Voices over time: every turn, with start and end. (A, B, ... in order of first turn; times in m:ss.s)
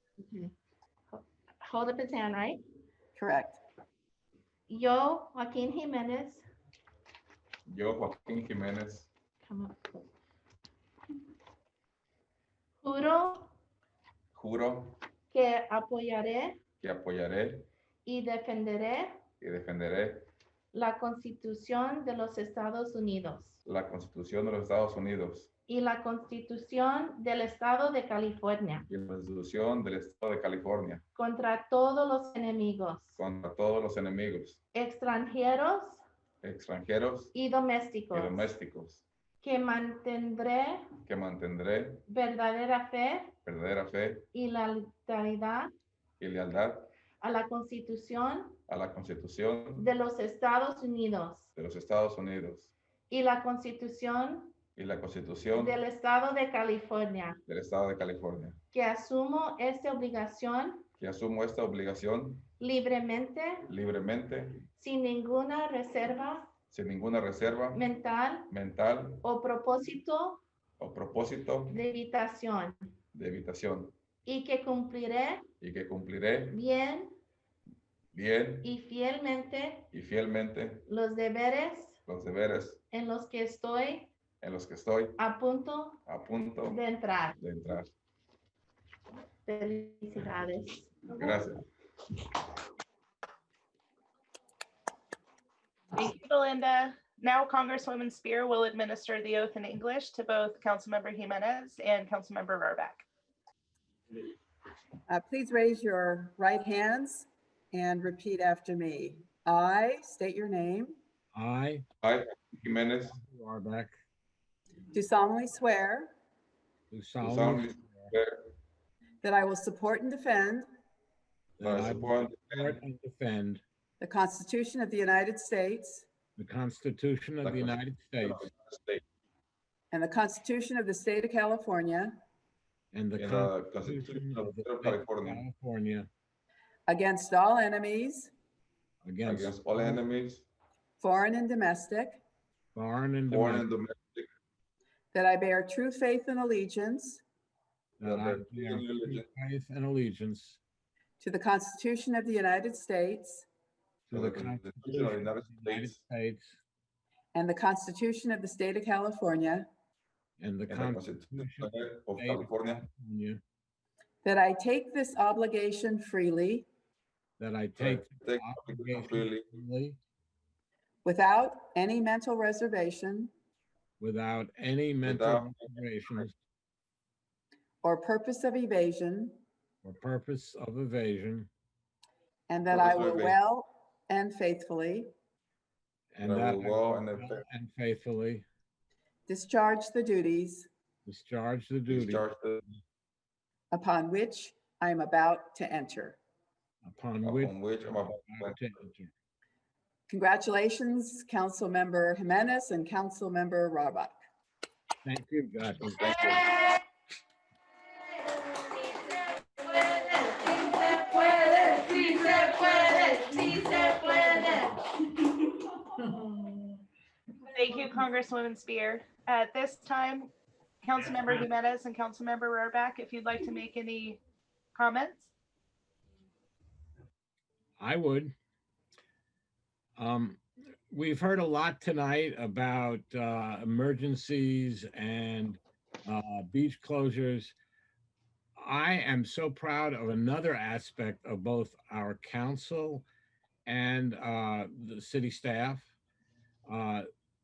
0:00.2-0:00.5 A
0:01.1-0:02.6 A
0:03.2-0:03.6 B
0:04.7-0:06.4 A
0:07.7-0:09.1 C
0:09.4-0:10.0 A
0:12.8-0:13.5 A
0:14.3-0:15.0 C
0:15.3-0:16.6 A
0:16.8-0:17.7 C
0:18.0-0:19.2 A
0:19.4-0:20.3 C
0:20.7-0:23.6 A
0:23.6-0:25.5 C
0:25.7-0:28.9 A
0:28.9-0:31.0 C
0:31.2-0:33.2 A
0:33.2-0:34.6 C
0:34.7-0:36.0 A
0:36.4-0:37.3 C
0:37.3-0:38.5 A
0:38.1-0:39.0 C
0:39.4-0:40.9 A
0:41.0-0:42.0 C
0:42.1-0:43.4 A
0:43.4-0:44.3 C
0:44.3-0:45.7 A
0:46.2-0:46.9 C
0:47.2-0:48.6 A
0:48.7-0:49.9 C
0:49.8-0:51.5 A
0:51.6-0:52.7 C
0:53.1-0:54.6 A
0:54.8-0:55.8 C
0:55.5-0:57.4 A
0:57.5-0:58.6 C
0:58.7-1:00.8 A
1:01.0-1:02.5 C
1:02.6-1:03.7 A
1:03.7-1:04.7 C
1:04.8-1:06.5 A
1:06.7-1:07.9 C
1:07.7-1:08.5 A
1:08.5-1:09.2 C
1:09.2-1:10.4 A
1:10.8-1:11.8 C
1:11.7-1:12.8 A
1:13.1-1:13.9 C
1:14.2-1:15.4 A
1:15.6-1:16.6 C
1:16.5-1:17.1 A
1:18.1-1:18.7 C
1:18.6-1:19.9 A
1:19.9-1:20.9 C
1:20.9-1:22.0 A
1:22.1-1:22.8 C
1:22.9-1:24.1 A
1:24.4-1:25.2 C
1:25.2-1:26.0 A
1:26.1-1:26.8 C
1:26.7-1:27.4 A
1:27.4-1:27.9 C
1:29.4-1:31.1 A
1:31.1-1:31.6 C
1:35.9-1:43.1 D
1:45.1-1:51.0 B
1:51.3-1:51.8 E
1:52.0-1:53.2 C
1:53.0-1:54.0 E
1:54.9-1:56.1 B
1:56.9-1:58.1 E
1:57.2-1:58.6 C
1:59.2-2:00.7 B
2:01.6-2:03.6 E
2:01.6-2:02.8 C
2:04.0-2:06.1 B
2:06.4-2:08.4 E
2:07.4-2:09.0 C
2:09.9-2:12.2 B
2:12.9-2:16.1 E
2:13.2-2:15.4 C
2:16.9-2:18.3 B
2:19.0-2:20.1 E
2:19.2-2:20.4 C
2:21.0-2:22.2 B
2:22.8-2:23.7 E
2:23.3-2:24.3 C
2:25.1-2:27.2 B
2:28.0-2:30.6 E
2:28.0-2:29.2 C
2:31.2-2:33.5 B
2:34.1-2:36.6 E
2:34.1-2:36.0 C
2:37.3-2:39.7 B
2:40.4-2:43.4 E
2:40.7-2:42.9 C
2:44.2-2:46.7 B
2:47.4-2:50.0 E
2:47.8-2:49.5 C
2:51.0-2:53.3 B
2:54.0-2:56.3 E
2:55.0-2:56.3 C
2:57.8-2:59.4 B
2:59.8-3:01.5 E
3:02.5-3:05.1 B
3:02.7-3:03.4 C
3:06.1-3:08.4 E
3:06.2-3:07.4 C
3:09.3-3:10.7 B
3:11.1-3:12.2 E
3:11.9-3:12.8 C
3:13.7-3:16.2 B
3:16.8-3:19.1 E
3:17.2-3:18.7 C
3:20.1-3:24.2 B
3:25.0-3:26.2 E
3:26.0-3:26.5 C
3:29.6-3:34.7 A
3:37.5-3:44.2 D
3:44.8-3:45.3 D
3:47.8-3:48.3 E
3:50.0-3:57.5 E
3:58.6-4:03.1 E
4:03.7-4:05.9 E
4:06.7-4:07.1 E